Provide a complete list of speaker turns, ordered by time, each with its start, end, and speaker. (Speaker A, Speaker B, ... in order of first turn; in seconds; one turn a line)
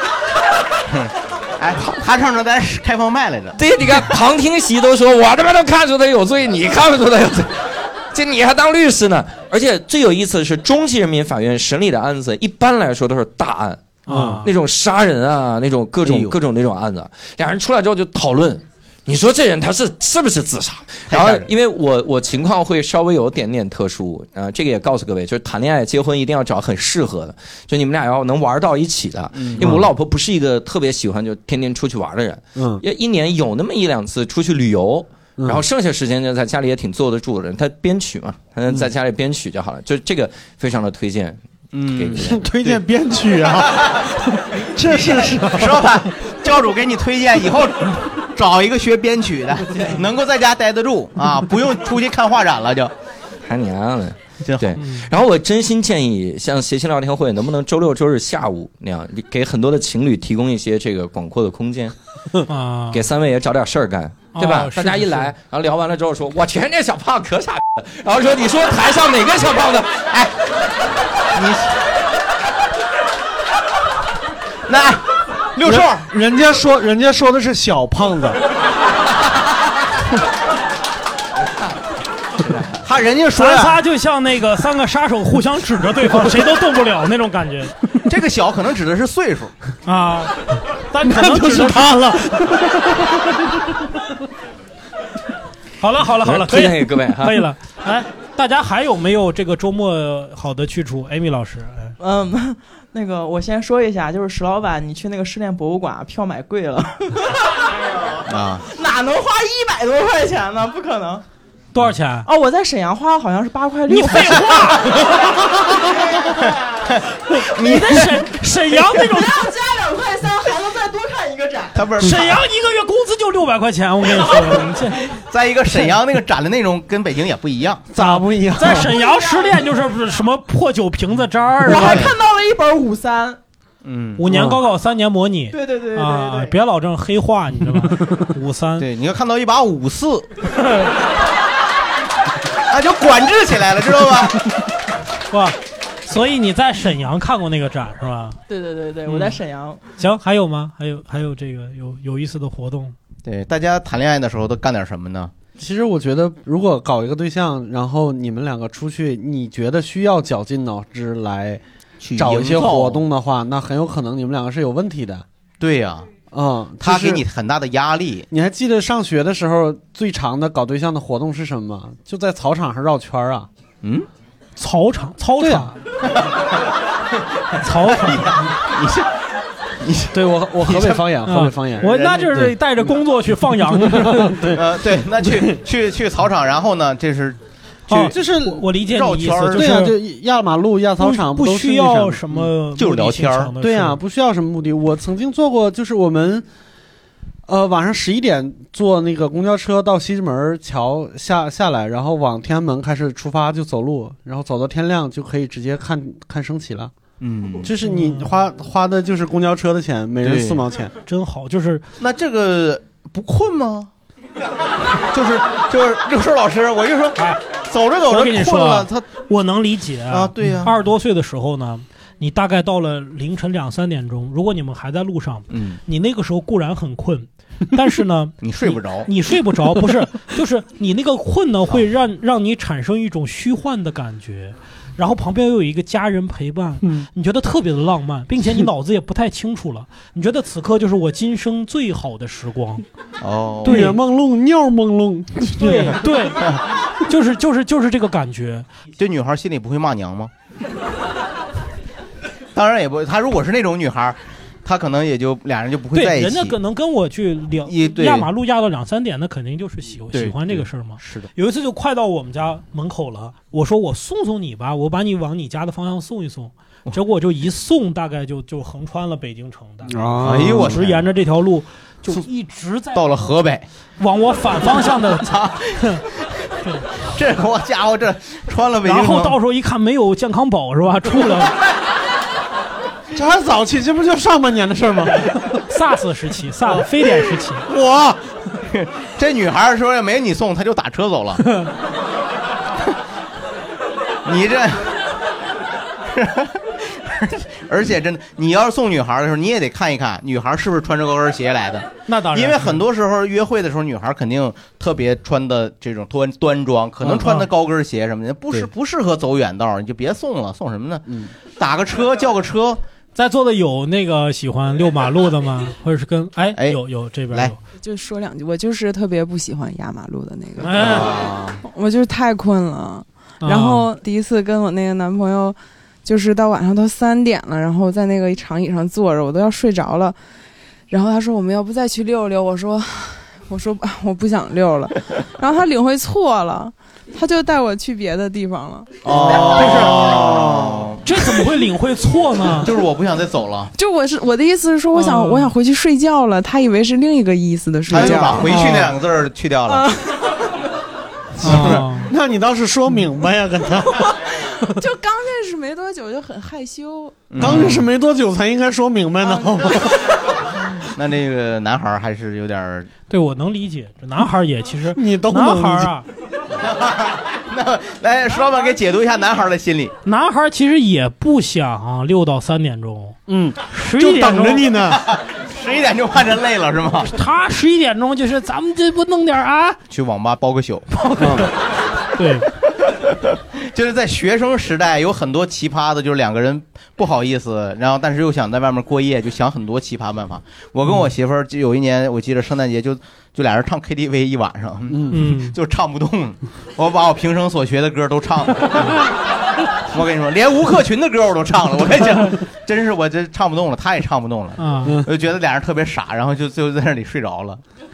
Speaker A: 0.9-3.6
Speaker B: 3.6-41.4
Speaker C: 14.1-14.5
Speaker D: 14.1-14.4
Speaker A: 16.0-16.4
Speaker A: 21.1-21.5
Speaker A: 29.3-29.7
Speaker D: 29.6-29.9
Speaker D: 32.6-32.8
Speaker D: 35.4-35.6
Speaker A: 41.7-42.8
Speaker B: 41.9-42.4
Speaker D: 42.2-45.9
Speaker A: 44.8-52.9
Speaker B: 53.5-62.0
Speaker A: 54.4-54.8
Speaker C: 62.5-63.0
Speaker B: 62.9-70.1
Speaker C: 64.3-65.3
Speaker A: 71.3-71.8
Speaker A: 74.7-75.0
Speaker A: 75.6-76.1
Speaker D: 75.6-78.4
Speaker A: 82.6-83.8
Speaker C: 83.3-87.8
Speaker A: 88.1-89.5
Speaker C: 89.9-90.4
Speaker C: 90.9-92.3
Speaker D: 91.0-93.0
Speaker C: 95.8-102.0
Speaker B: 96.2-97.5
Speaker E: 102.0-107.5
Speaker E: 108.0-111.2
Speaker A: 108.3-108.7
Speaker C: 111.7-112.3
Speaker E: 112.2-116.4
Speaker C: 113.9-115.1
Speaker A: 116.9-118.3
Speaker C: 117.5-119.5
Speaker E: 118.9-121.8
Speaker A: 121.7-122.4
Speaker C: 122.0-125.1
Speaker E: 124.2-124.6
Speaker A: 125.2-127.9
Speaker D: 127.9-128.9
Speaker C: 128.0-132.1
Speaker E: 129.0-129.6
Speaker E: 131.7-133.4
Speaker A: 131.8-132.2
Speaker A: 133.8-134.2
Speaker C: 134.2-138.9
Speaker D: 134.3-134.6
Speaker E: 135.5-136.5
Speaker A: 138.8-140.3
Speaker A: 142.7-144.4
Speaker C: 145.3-148.4
Speaker E: 148.5-149.8
Speaker C: 150.0-152.9
Speaker A: 153.2-155.3
Speaker D: 155.6-161.6
Speaker A: 162.0-163.0
Speaker D: 162.2-165.2
Speaker A: 165.6-166.1
Speaker D: 166.3-167.2
Speaker A: 166.8-168.3
Speaker D: 168.3-173.5
Speaker A: 173.8-174.1
Speaker C: 174.6-175.8
Speaker D: 175.4-175.7
Speaker A: 176.1-176.6
Speaker C: 177.6-178.3
Speaker A: 177.8-179.1
Speaker A: 179.8-181.1
Speaker D: 180.1-182.6
Speaker C: 181.3-184.4
Speaker A: 181.8-182.2
Speaker D: 183.7-184.7
Speaker A: 184.5-189.8
Speaker D: 185.2-185.5
Speaker C: 187.9-190.0
Speaker D: 188.1-188.6
Speaker D: 189.5-192.5
Speaker C: 191.0-194.0
Speaker A: 192.8-193.5
Speaker D: 193.6-196.5
Speaker D: 197.5-206.9
Speaker A: 207.2-207.7
Speaker D: 207.6-210.9
Speaker C: 207.8-208.3
Speaker A: 210.2-210.6
Speaker C: 211.1-211.8
Speaker A: 212.0-213.9
Speaker A: 215.1-219.1
Speaker C: 218.1-242.8
Speaker A: 220.1-220.7
Speaker A: 225.5-225.8
Speaker A: 228.4-229.1
Speaker A: 243.2-243.9
Speaker C: 243.7-244.0
Speaker D: 243.7-246.0
Speaker C: 245.5-246.5
Speaker C: 247.1-248.7
Speaker A: 249.0-250.3
Speaker A: 252.5-256.6
Speaker C: 255.9-273.1
Speaker A: 257.6-258.3
Speaker A: 260.1-261.3
Speaker D: 269.9-270.8
Speaker A: 270.2-271.0
Speaker A: 272.9-273.7
Speaker C: 274.0-276.0
Speaker A: 275.0-276.3
Speaker A: 277.0-279.4
Speaker C: 278.8-281.5
Speaker D: 283.1-285.6
Speaker C: 285.7-287.7
Speaker D: 287.7-288.2
Speaker A: 288.7-291.4
Speaker A: 294.2-295.0
Speaker A: 296.1-312.8
Speaker C: 302.1-302.8
Speaker C: 307.0-307.5
Speaker C: 313.1-317.6
Speaker A: 316.6-316.8
Speaker F: 317.8-320.8
Speaker C: 320.6-321.1
Speaker A: 320.8-321.6
Speaker F: 321.6-330.2
Speaker C: 323.4-323.9
Speaker F: 330.9-339.0
Speaker A: 339.0-341.0
Speaker D: 339.2-340.9
Speaker C: 339.3-340.2
Speaker C: 341.0-342.7
Speaker A: 342.6-343.7
Speaker F: 343.8-348.6
Speaker C: 344.9-345.5
Speaker A: 347.9-349.9
Speaker D: 347.9-348.8
Speaker F: 349.7-350.0
Speaker D: 351.4-354.1
Speaker C: 351.4-352.1
Speaker A: 351.4-351.8
Speaker F: 354.6-357.4
Speaker A: 357.3-357.9
Speaker D: 357.4-360.0
Speaker A: 360.9-362.9
Speaker C: 363.1-366.1
Speaker D: 364.9-365.9
Speaker A: 366.6-369.9
Speaker C: 370.1-373.2
Speaker D: 373.3-375.1
Speaker C: 373.7-374.7
Speaker A: 374.9-377.1
Speaker C: 377.1-379.8
Speaker A: 379.9-381.0
Speaker C: 381.0-381.5
Speaker D: 381.2-381.5
Speaker C: 382.1-382.5
Speaker A: 383.0-399.0
Speaker C: 395.1-395.6
Speaker A: 399.9-407.6
Speaker C: 404.6-405.0
Speaker D: 404.9-405.1